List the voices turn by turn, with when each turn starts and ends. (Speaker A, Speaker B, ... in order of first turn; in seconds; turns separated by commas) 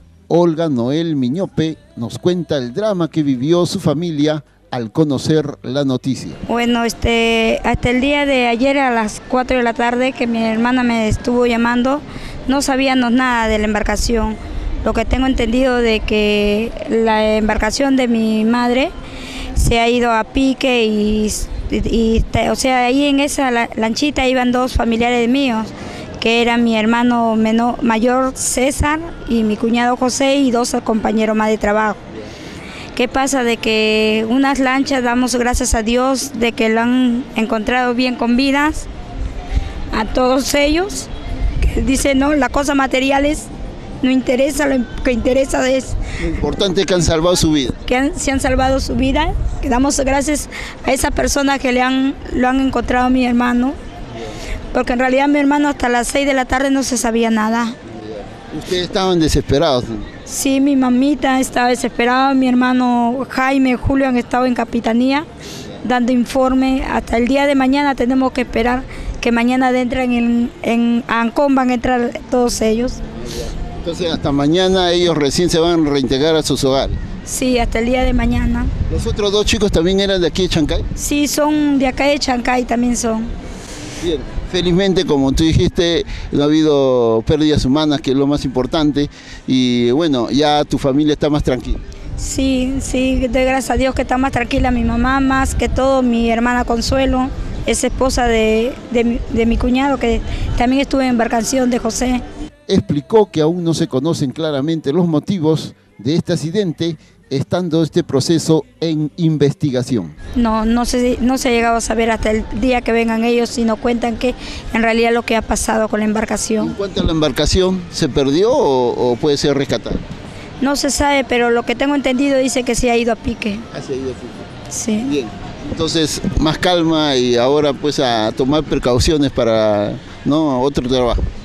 Speaker A: 0.3-6.4, Speaker B: 6.5-18.9, Speaker B: 19.6-32.0, Speaker B: 33.0-38.9, Speaker B: 39.9-43.5, Speaker B: 44.0-46.0, Speaker A: 46.2-47.8, Speaker B: 47.8-53.8, Speaker B: 54.7-57.8, Speaker A: 57.9-60.1, Speaker B: 60.3-65.3, Speaker B: 65.8-73.0, Speaker A: 73.2-77.0, Speaker B: 77.3-78.7, Speaker A: 78.9-80.9, Speaker B: 81.0-83.3, Speaker A: 84.0-91.8, Speaker B: 92.2-102.2, Speaker A: 102.7-110.2, Speaker B: 110.3-116.7, Speaker A: 116.6-120.0, Speaker B: 120.6-123.7, Speaker A: 123.7-124.5, Speaker B: 124.7-125.1, Speaker A: 125.0-131.2